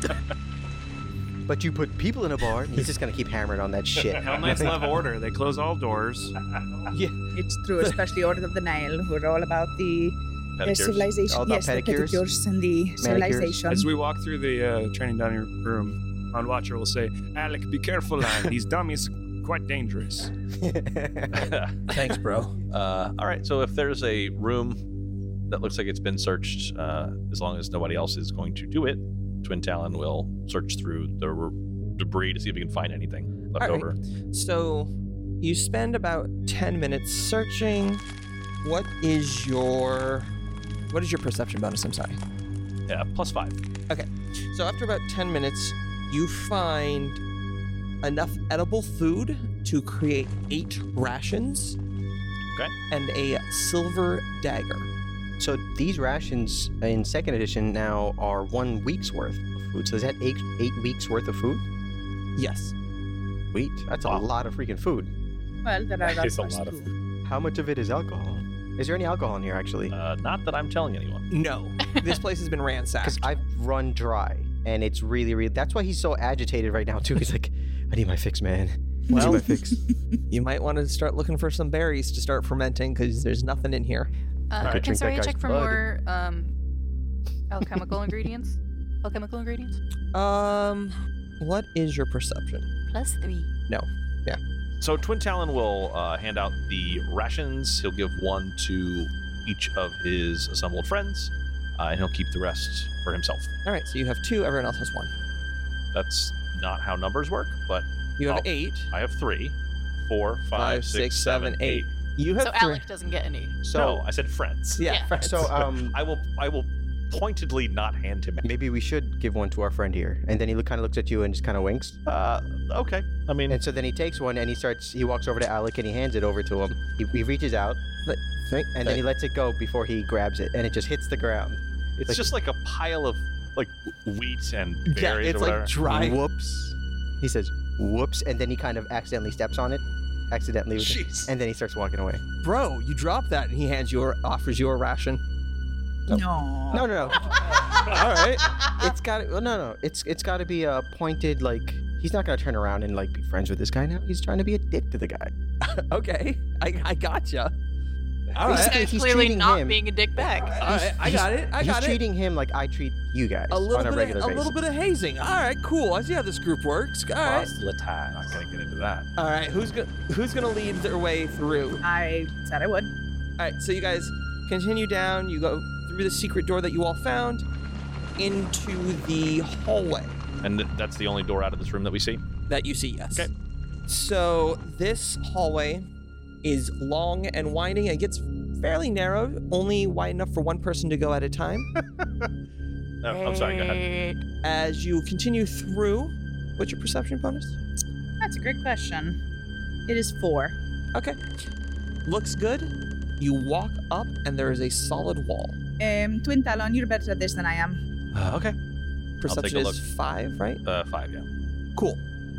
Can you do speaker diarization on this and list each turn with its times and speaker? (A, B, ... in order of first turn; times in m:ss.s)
0:01.5-0:04.8 A
0:04.2-0:06.3 B
0:06.9-0:07.2 C
0:07.3-0:13.9 D
0:10.6-0:11.1 E
0:11.3-0:12.2 A
0:13.0-0:13.6 A
0:13.7-0:20.3 B
0:20.6-0:21.5 A
0:21.3-0:22.0 E
0:21.9-0:22.6 C
0:22.7-0:24.8 E
0:25.5-0:34.0 E
0:33.6-0:38.0 C
0:38.6-0:40.3 C
0:40.9-0:42.2 C
0:42.9-0:43.6 E
0:43.9-0:47.2 C
0:48.0-0:51.8 C
0:52.9-0:54.9 C
0:55.4-1:01.6 A
1:02.4-1:02.7 C
1:03.5-1:05.1 A
1:05.6-1:06.9 D
1:06.0-1:06.8 F
1:07.2-1:09.9 A
1:09.9-1:11.3 E
1:11.3-1:13.3 C
1:13.0-1:19.8 A
1:19.1-1:19.4 C
1:19.1-1:19.4 E
1:20.3-1:24.1 C
1:24.5-1:26.5 G
1:24.6-1:25.8 A
1:27.5-1:29.8 G
1:30.1-1:32.7 C
1:32.9-1:33.5 G
1:33.7-1:34.4 C
1:34.8-1:43.5 E
1:43.6-1:45.1 C
1:45.9-1:51.9 E
1:48.2-1:48.9 C
1:50.5-1:52.8 C
1:52.4-1:53.6 G
1:53.6-1:54.0 A
1:53.7-1:54.9 E
1:54.8-1:55.6 C
1:54.8-1:55.1 G
1:55.2-1:56.0 A
1:55.4-1:58.5 E
1:58.4-2:02.0 A
2:02.0-2:03.6 E
2:03.5-2:07.8 A
2:08.0-2:09.0 C
2:08.7-2:12.3 A
2:12.0-2:15.7 E
2:14.9-2:16.2 C
2:15.8-2:22.2 A
2:22.4-2:25.2 C
2:26.1-2:28.6 C
2:26.1-2:26.9 D
2:26.7-2:27.4 A
2:28.8-2:35.3 A
2:35.6-2:37.5 C
2:38.3-2:38.8 C
2:38.4-2:44.6 A
2:38.5-2:40.6 G
2:40.5-2:42.0 C
2:43.5-2:47.5 C
2:47.2-2:48.4 F
2:48.2-2:49.1 E
2:49.2-2:51.8 C
2:51.8-2:52.9 D
2:53.4-2:57.4 C
2:58.2-3:00.2 C
3:00.4-3:02.2 E
3:02.5-3:03.3 C
3:03.9-3:05.9 C
3:06.4-3:11.7 C
3:11.9-3:12.2 E
3:13.0-3:13.8 E
3:13.1-3:14.2 G
3:14.4-3:17.6 C
3:18.2-3:19.2 D
3:19.9-3:20.6 D
3:20.9-3:21.2 C
3:22.0-3:25.6 C
3:25.8-3:27.8 D
3:28.1-3:28.6 E
3:29.2-3:30.6 C
3:29.2-3:29.8 E
3:30.6-3:31.3 E
3:31.8-3:32.0 C